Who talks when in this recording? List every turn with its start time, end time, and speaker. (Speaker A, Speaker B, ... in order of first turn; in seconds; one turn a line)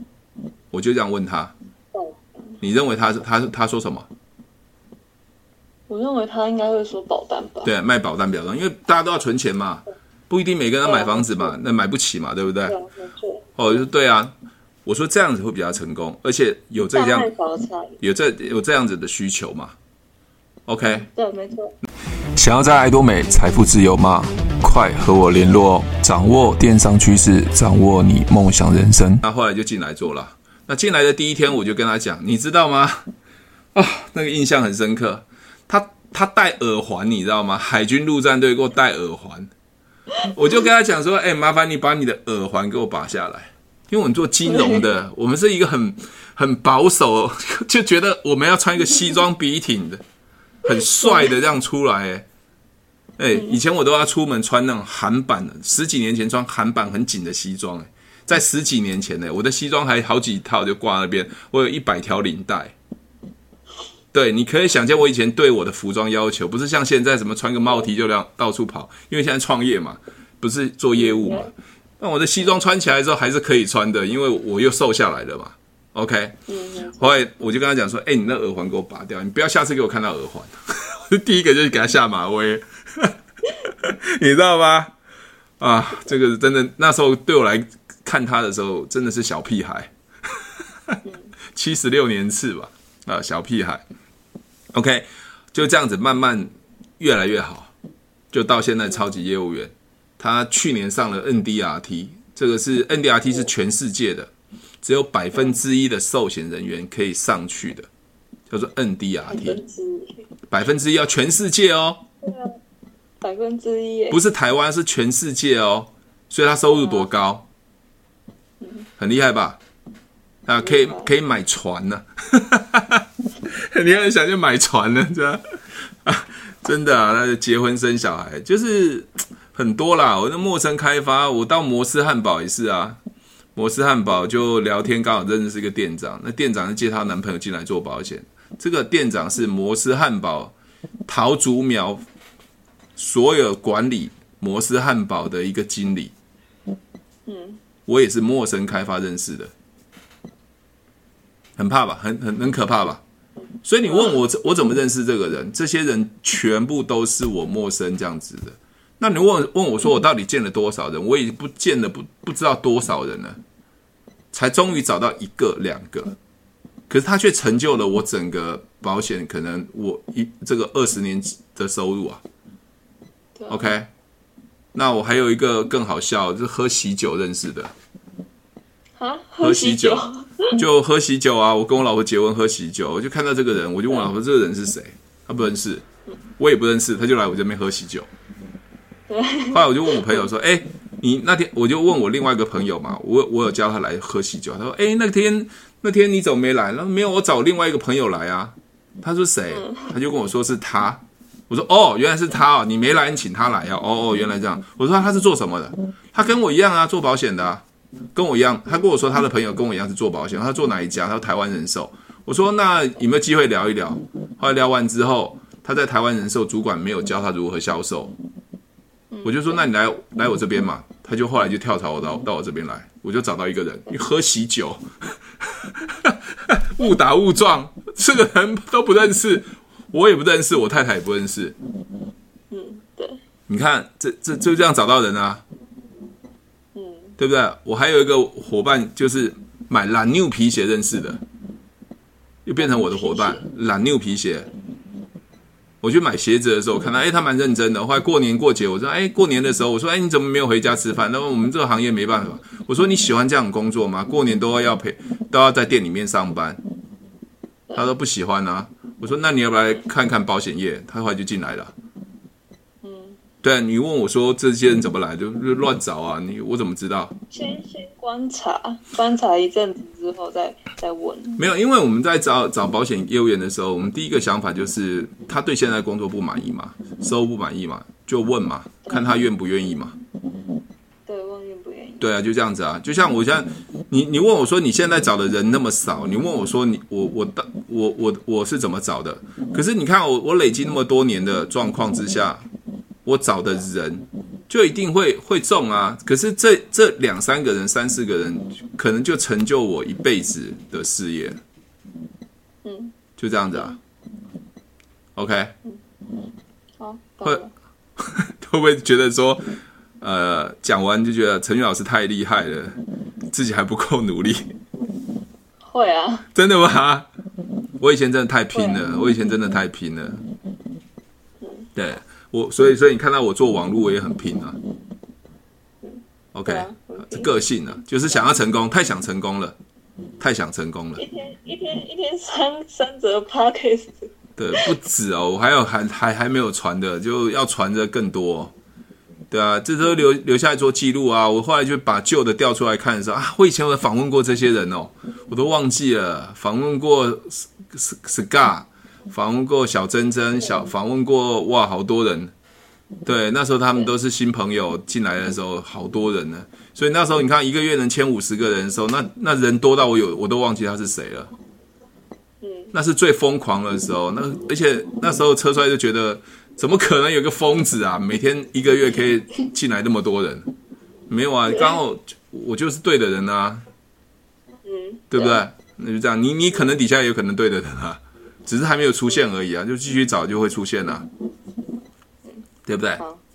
Speaker A: 0.7-1.5
Speaker B: 1.9-2.3
Speaker A: 2.6-4.1
Speaker B: 5.9-7.7
Speaker A: 7.6-12.8
Speaker B: 10.8-11.5
Speaker B: 12.7-13.8
Speaker A: 13.6-14.3
Speaker A: 14.8-17.3
Speaker B: 16.9-18.0
Speaker A: 18.0-19.8
Speaker A: 20.7-21.1
Speaker B: 20.8-21.8
Speaker A: 22.4-33.1
Speaker A: 33.8-39.5
Speaker A: 40.2-50.0
Speaker B: 44.5-44.8
Speaker A: 50.6-52.3
Speaker B: 51.0-51.4
Speaker A: 53.2-62.8
Speaker A: 64.1-76.4
Speaker B: 71.0-71.5
Speaker B: 76.5-77.2
Speaker A: 77.0-83.1
Speaker A: 83.7-84.9
Speaker A: 85.6-89.9
Speaker B: 91.0-91.3
Speaker A: 91.5-93.8
Speaker A: 94.7-97.7
Speaker A: 98.3-104.3
Speaker A: 104.8-107.9
Speaker A: 108.5-109.6
Speaker B: 109.3-110.3
Speaker A: 110.5-112.0
Speaker B: 112.2-112.6
Speaker B: 113.2-114.2
Speaker A: 114.1-117.5
Speaker B: 116.7-117.1
Speaker B: 118.6-118.9
Speaker A: 119.0-119.6
Speaker A: 120.5-125.4
Speaker B: 120.6-121.1
Speaker A: 126.0-133.0
Speaker A: 133.6-140.5
Speaker A: 141.1-142.0
Speaker A: 143.0-146.1
Speaker B: 147.3-147.6
Speaker A: 147.9-149.5
Speaker A: 151.6-153.0
Speaker A: 153.6-163.4
Speaker B: 153.9-154.2
Speaker A: 164.3-166.2
Speaker A: 166.9-172.2
Speaker B: 173.4-173.7
Speaker A: 173.5-173.9
Speaker A: 174.7-177.7
Speaker B: 179.0-180.6
Speaker A: 179.4-185.8
Speaker A: 186.4-188.1
Speaker B: 189.1-190.3
Speaker A: 189.5-207.6
Speaker B: 199.5-199.9
Speaker A: 208.2-218.2
Speaker B: 219.1-219.7
Speaker A: 219.2-224.8
Speaker A: 225.6-231.6
Speaker B: 232.5-233.2
Speaker A: 233.5-235.4
Speaker B: 236.8-237.2
Speaker A: 237.2-241.2
Speaker A: 242.4-244.5
Speaker B: 242.6-243.4
Speaker A: 245.8-256.6
Speaker A: 257.8-261.7
Speaker B: 262.8-263.2
Speaker A: 263.4-267.1
Speaker B: 267.3-271.4
Speaker A: 271.4-280.0
Speaker B: 278.9-279.2
Speaker B: 281.1-282.1
Speaker A: 282.0-292.4
Speaker A: 293.1-301.4
Speaker B: 302.6-303.0
Speaker A: 303.2-303.8
Speaker A: 305.2-305.5
Speaker B: 306.8-307.5
Speaker A: 308.0-312.8
Speaker A: 313.3-314.5
Speaker B: 315.6-316.3
Speaker A: 316.3-317.1
Speaker A: 317.8-320.2
Speaker B: 318.5-318.8
Speaker B: 321.4-321.7
Speaker A: 321.8-324.6
Speaker B: 325.8-327.4
Speaker A: 326.3-329.6
Speaker B: 328.1-328.4
Speaker A: 330.2-331.0
Speaker B: 331.0-334.6
Speaker A: 334.4-338.5
Speaker A: 339.3-352.3
Speaker A: 353.1-361.3
Speaker B: 362.4-362.7
Speaker A: 362.7-370.5
Speaker A: 371.1-373.6
Speaker B: 374.6-375.4
Speaker A: 375.1-381.1
Speaker A: 382.7-383.0